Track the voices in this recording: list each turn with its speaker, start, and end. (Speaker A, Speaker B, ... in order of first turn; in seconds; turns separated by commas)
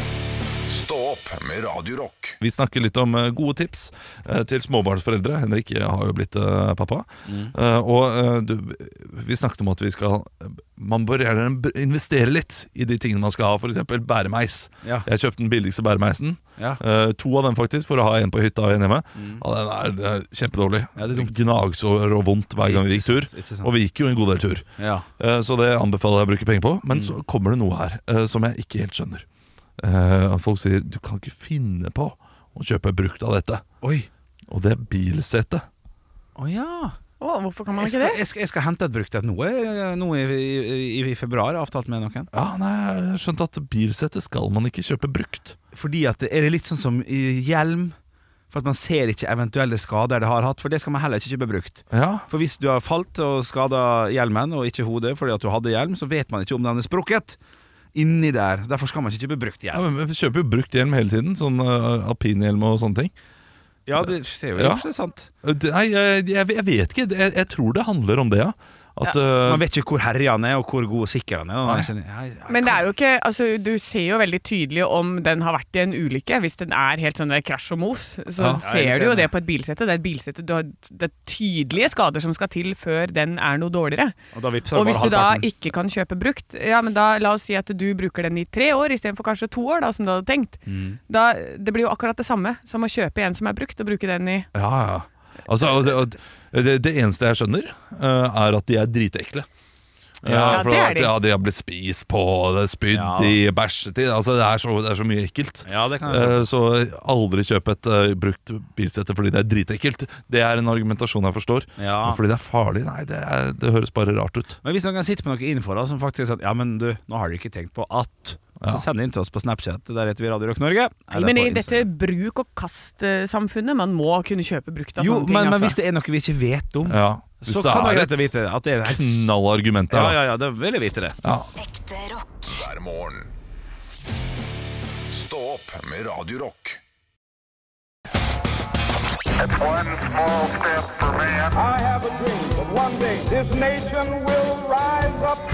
Speaker A: 0.7-2.4, Speaker B: 2.4-24.6, Speaker C: 7.2-7.5, Speaker C: 19.1-19.4, Speaker C: 21.0-21.4, Speaker C: 22.6-23.7, Speaker C: 24.8-25.1, Speaker B: 25.2-29.2, Speaker C: 26.9-27.2, Speaker B: 29.8-33.6, Speaker C: 33.8-34.1, Speaker B: 34.5-35.6, Speaker C: 36.4-37.0, Speaker D: 37.2-38.2, Speaker C: 37.8-42.3, Speaker B: 42.3-45.6, Speaker C: 45.7-48.0, Speaker C: 48.5-57.4, Speaker B: 51.9-52.2, Speaker C: 57.9-59.8, Speaker B: 59.7-63.1, Speaker C: 63.9-65.3, Speaker B: 64.0-64.9, Speaker B: 65.4-69.6, Speaker C: 69.4-72.9, Speaker D: 72.5-84.1, Speaker B: 78.4-78.6, Speaker C: 78.6-79.3, Speaker C: 84.3-85.5, Speaker D: 84.7-94.5, Speaker C: 90.7-91.0, Speaker B: 94.5-99.5, Speaker C: 100.2-100.8, Speaker B: 100.2-114.6, Speaker D: 100.5-101.1, Speaker C: 102.9-103.4, Speaker C: 105.6-106.5, Speaker C: 111.8-112.2, Speaker C: 114.6-121.9, Speaker B: 118.6-118.8, Speaker D: 121.1-125.8, Speaker C: 125.0-129.3, Speaker B: 126.8-128.3, Speaker B: 128.8-130.2, Speaker C: 129.9-131.2, Speaker B: 131.2-131.5, Speaker A: 131.6-133.3, Speaker A: 135.1-136.8, Speaker E: 141.6-145.3